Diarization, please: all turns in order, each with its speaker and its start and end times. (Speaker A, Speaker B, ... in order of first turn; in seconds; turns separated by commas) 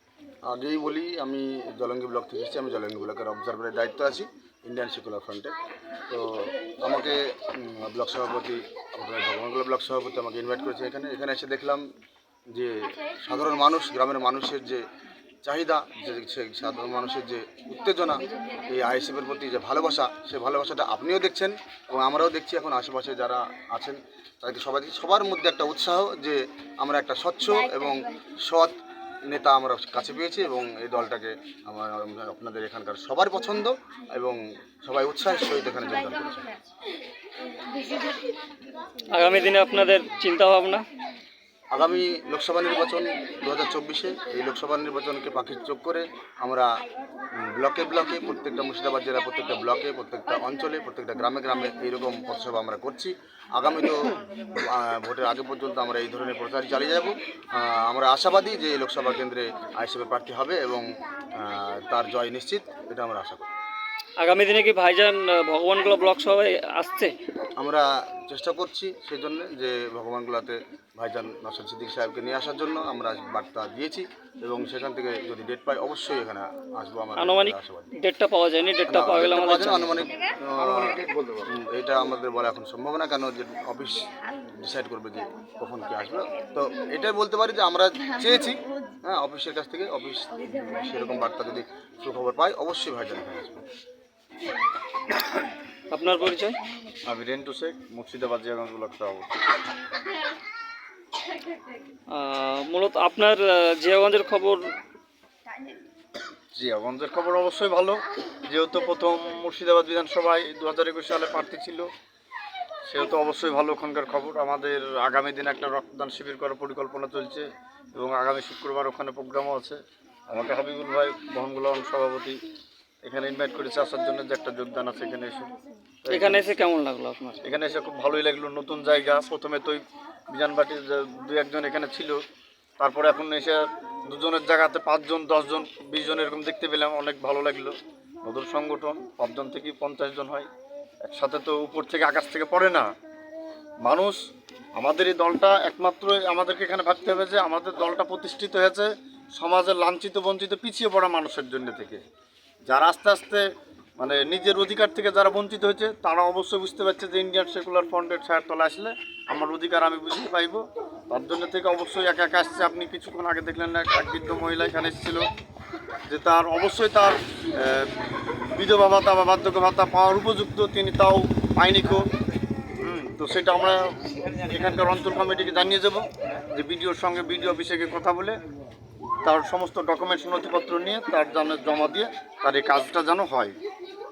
Speaker A: 0.5-5.5, Speaker A: 6.1-11.8, Speaker A: 12.5-14.8, Speaker A: 15.4-28.7, Speaker A: 29.3-36.5, Speaker B: 39.1-40.8, Speaker A: 41.7-46.7, Speaker A: 47.4-63.5, Speaker B: 64.2-67.1, Speaker A: 67.6-77.9, Speaker B: 77.2-80.1, Speaker A: 78.9-93.6, Speaker C: 80.8-81.4, Speaker B: 95.9-96.6, Speaker C: 97.1-99.5, Speaker B: 102.1-104.6, Speaker C: 106.5-111.9, Speaker C: 112.9-122.4, Speaker C: 123.0-125.5, Speaker C: 126.0-126.5, Speaker B: 126.1-127.4, Speaker C: 127.4-132.2, Speaker C: 132.8-140.5, Speaker C: 141.0-142.9, Speaker C: 143.8-144.2, Speaker C: 144.8-152.0, Speaker C: 152.7-153.5, Speaker C: 154.0-165.2, Speaker C: 166.1-167.9, Speaker C: 168.5-172.0, Speaker C: 172.8-178.4, Speaker C: 179.2-183.5